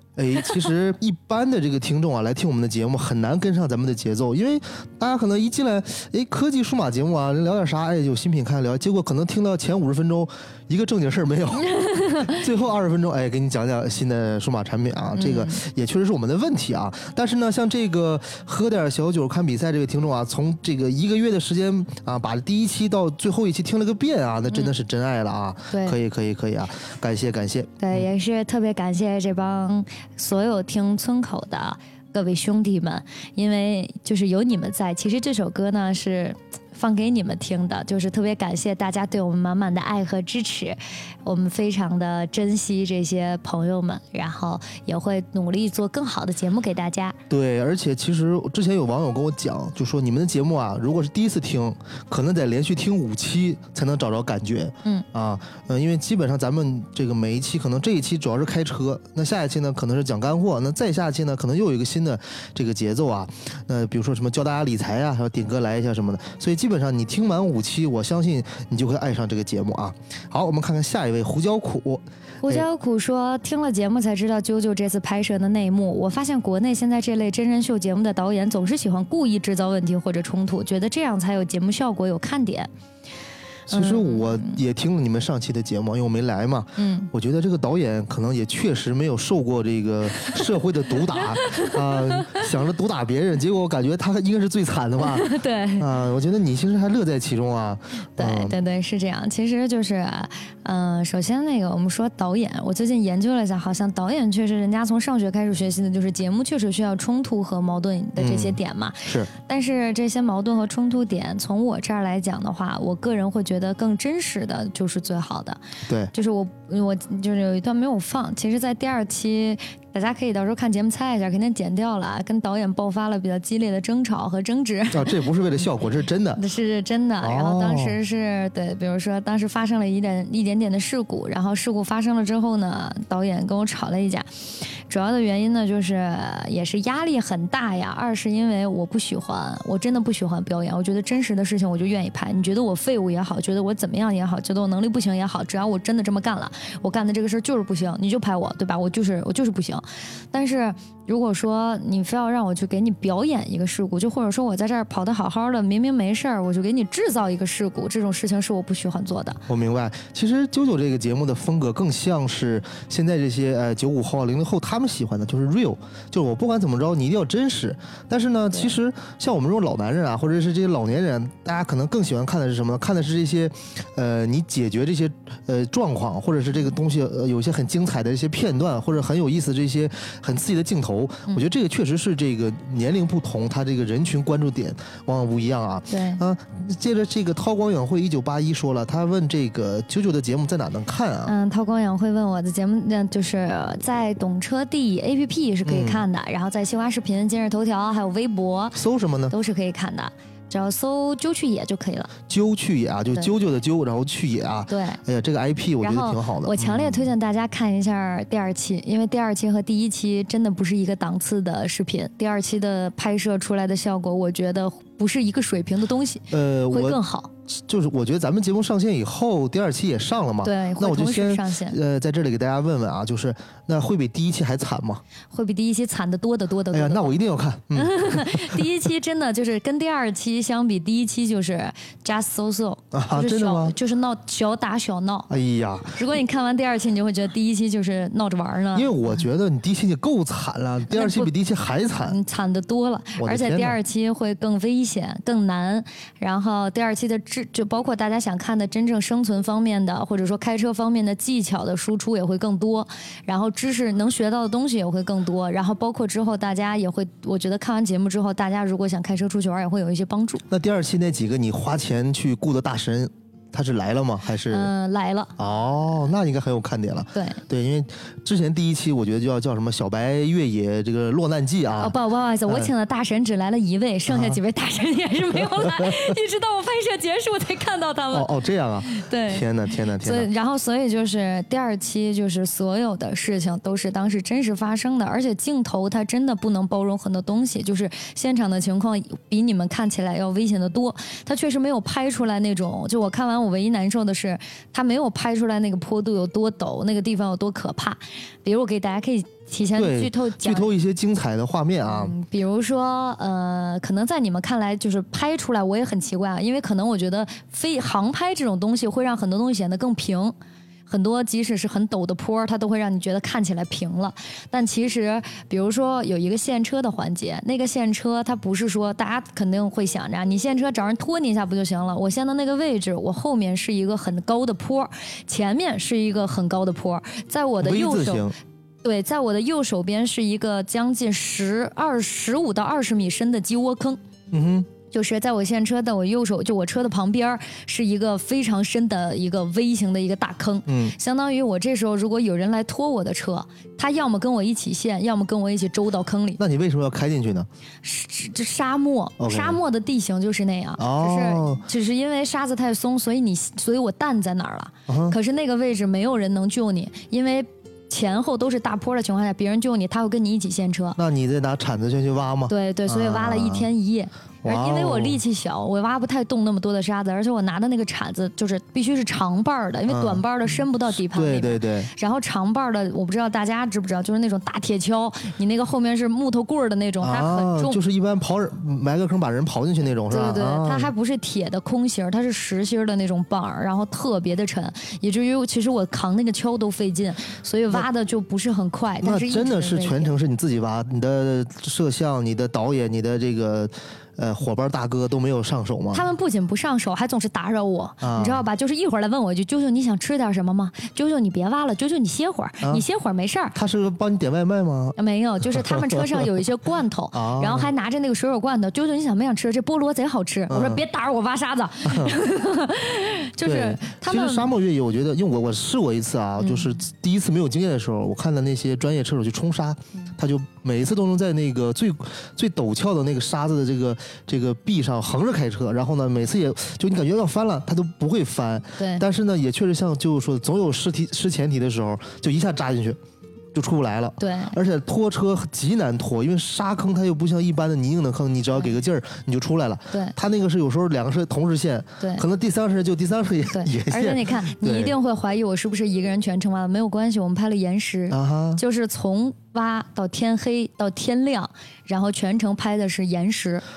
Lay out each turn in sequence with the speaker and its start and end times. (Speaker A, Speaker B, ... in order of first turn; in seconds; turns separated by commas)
Speaker A: 0.2-28.1, Speaker B: 11.8-12.3, Speaker B: 15.2-15.6, Speaker B: 25.7-26.0, Speaker B: 27.8-47.2, Speaker A: 47.3-72.7, Speaker B: 72.4-82.7, Speaker B: 83.7-84.6, Speaker A: 83.7-98.6, Speaker B: 86.8-87.1, Speaker B: 91.5-92.4, Speaker B: 95.0-95.9, Speaker B: 98.2-115.6, Speaker A: 108.2-109.3, Speaker B: 116.1-125.2, Speaker A: 124.9-126.4, Speaker B: 126.4-134.3, Speaker A: 127.2-128.0, Speaker B: 134.9-159.4, Speaker A: 159.5-191.3, Speaker B: 185.9-186.2, Speaker B: 191.3-198.8, Speaker A: 195.7-196.1, Speaker A: 198.7-199.3, Speaker B: 199.3-202.1, Speaker A: 202.3-207.1, Speaker B: 204.7-205.0, Speaker B: 205.8-217.3, Speaker A: 216.3-225.0, Speaker B: 220.4-221.8, Speaker B: 225.3-227.1, Speaker A: 226.7-228.7, Speaker B: 227.8-235.3, Speaker A: 232.9-233.8, Speaker A: 235.3-236.0, Speaker B: 235.9-238.9, Speaker A: 238.7-242.2, Speaker B: 240.9-241.3, Speaker B: 242.1-260.4, Speaker A: 243.2-243.8, Speaker A: 260.5-264.7, Speaker B: 264.5-265.3, Speaker A: 265.4-271.9, Speaker B: 267.1-267.4, Speaker B: 271.8-278.3, Speaker A: 274.1-274.4, Speaker A: 275.4-276.1, Speaker A: 278.1-280.3, Speaker B: 278.9-279.4, Speaker B: 280.0-300.7, Speaker A: 299.8-302.1, Speaker B: 301.9-310.4, Speaker B: 310.9-328.3, Speaker A: 327.6-328.4, Speaker B: 328.8-334.0, Speaker A: 334.3-334.7, Speaker B: 334.9-346.4, Speaker A: 340.7-340.9, Speaker A: 346.4-347.5, Speaker B: 347.8-361.0, Speaker A: 349.2-349.6, Speaker A: 350.8-351.6, Speaker A: 354.9-355.2, Speaker A: 361.0-363.7, Speaker B: 362.5-377.8, Speaker A: 364.4-365.2, Speaker A: 369.9-371.9, Speaker A: 377.0-380.9, Speaker B: 380.1-390.1, Speaker A: 389.0-396.1, Speaker B: 395.9-403.6, Speaker A: 398.0-398.4, Speaker A: 403.5-406.2, Speaker B: 405.0-414.5, Speaker A: 407.1-407.7, Speaker A: 410.5-410.8, Speaker A: 411.8-412.1, Speaker A: 413.4-433.0, Speaker B: 416.4-416.8, Speaker B: 428.8-429.1, Speaker A: 433.5-444.9, Speaker B: 434.2-434.6, Speaker B: 442.0-442.2, Speaker B: 443.5-453.6, Speaker A: 448.1-448.6